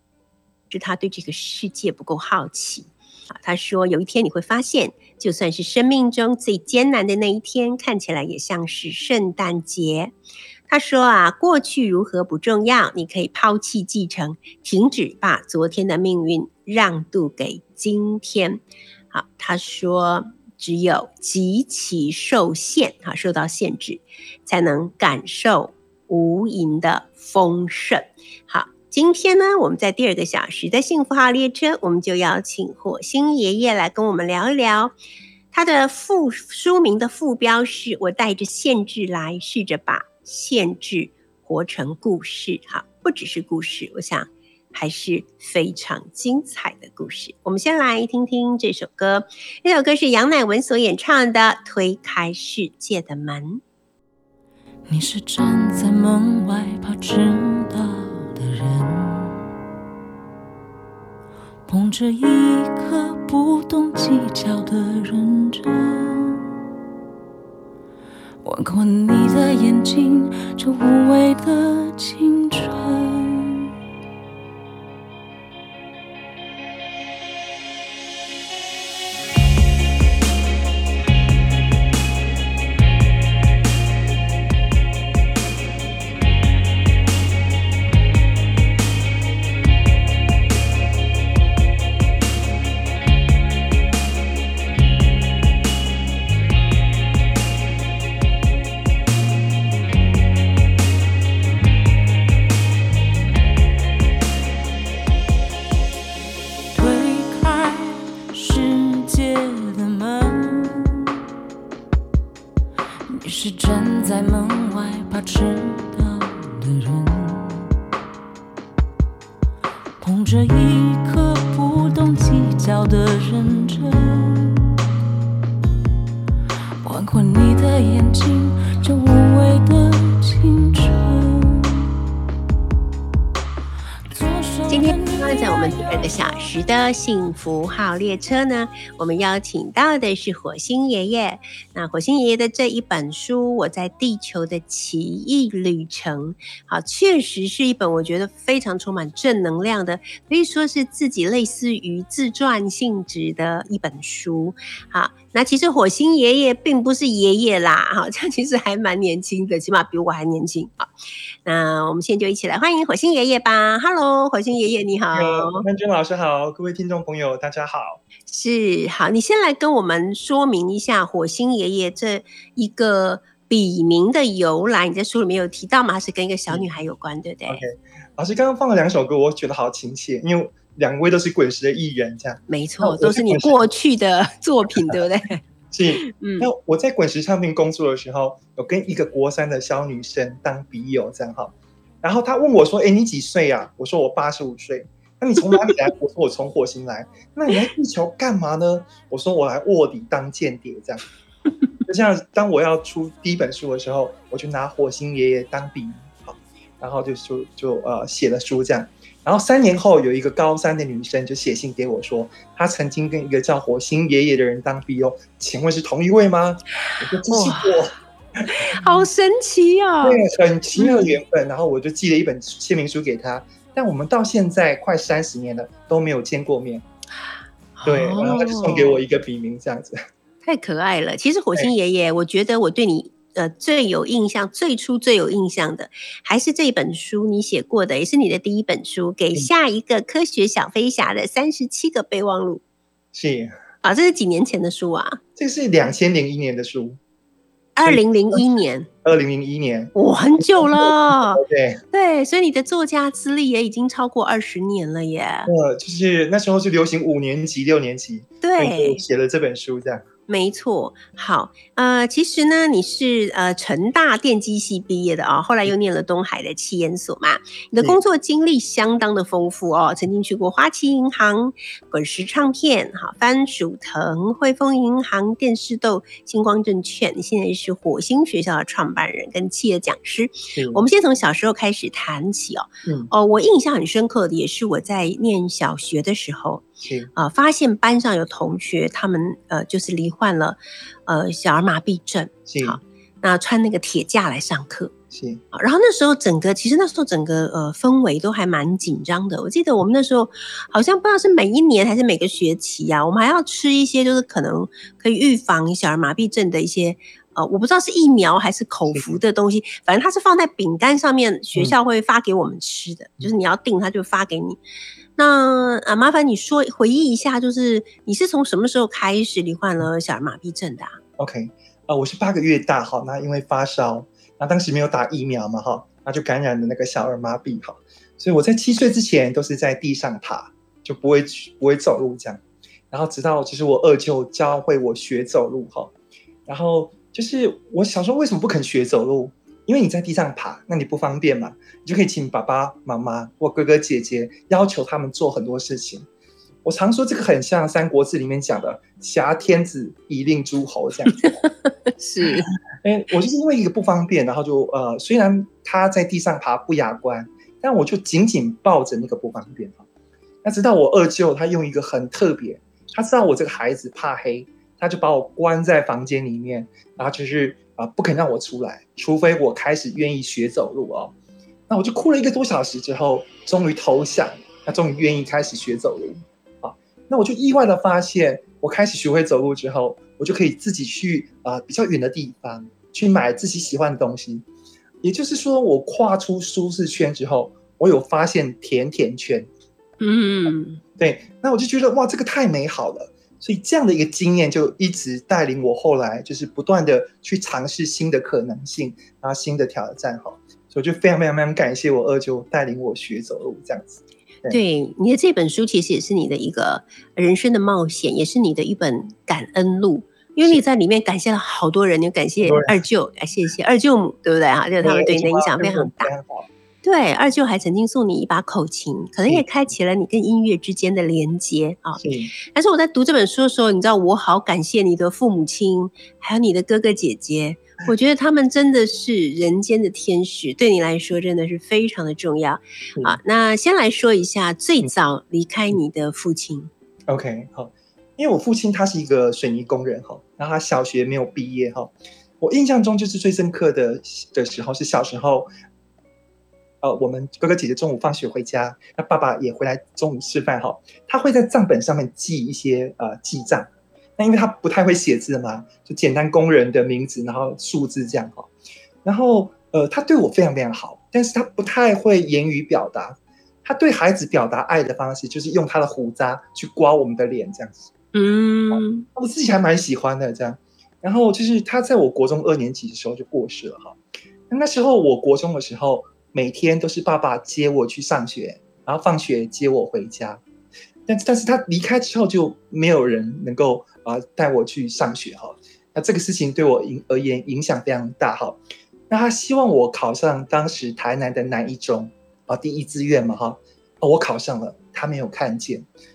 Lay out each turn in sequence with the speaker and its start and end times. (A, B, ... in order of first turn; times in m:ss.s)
0:00.7-0:10.1 A
0:10.7-0:34.9 A
0:35.5-0:53.6 A
0:54.9-0:59.4 B
1:01.7-1:06.4 B
1:08.4-1:13.6 B
1:46.7-1:51.0 B
1:53.1-1:57.6 B
2:00.0-2:04.6 B
2:06.8-2:11.8 B
2:14.1-2:16.5 B
2:14.7-2:40.9 A
2:41.4-2:45.6 A
2:45.1-2:48.0 C
2:48.3-2:57.6 A
2:57.5-3:03.6 C
3:02.5-3:05.4 A
3:05.7-3:21.0 C
3:06.0-3:06.5 A
3:21.8-3:39.0 C
3:37.3-3:37.8 A
3:38.5-3:40.2 A
3:40.0-3:46.8 C
3:40.8-3:41.1 A
3:47.8-3:49.0 A
3:47.8-3:50.0 C
3:50.4-4:02.6 A
4:03.1-4:03.6 C
4:03.8-4:05.2 A
4:05.4-4:07.0 C
4:07.7-4:08.9 A
4:07.8-4:08.4 C
4:09.0-4:11.8 C
4:09.9-4:15.5 A
4:15.5-4:20.0 C
4:18.4-4:19.0 A
4:20.3-4:54.9 A
4:40.5-4:40.8 C
4:42.8-4:43.1 C
4:46.8-4:47.1 C
4:52.5-4:52.8 C
4:55.1-4:55.4 C
4:55.5-5:14.6 A
5:08.9-5:09.2 C
5:15.2-5:21.0 A
5:21.2-5:35.9 C
5:36.5-5:46.0 C
5:46.6-5:51.4 C
5:51.6-5:52.5 A
5:52.8-5:59.8 C
6:00.4-6:11.1 C
6:11.7-6:24.4 C
6:25.0-6:29.5 C
6:30.0-6:30.8 A
6:31.0-6:44.6 C
6:44.5-6:56.1 A
6:52.4-6:52.8 C
6:54.8-6:56.5 C
6:56.8-7:02.0 A
7:02.0-7:02.3 C
7:02.5-7:16.7 A
7:17.1-7:25.5 C
7:26.8-7:38.5 C
7:39.0-7:47.9 C
7:48.1-7:49.0 A
7:48.7-8:00.4 C
8:01.1-8:15.8 C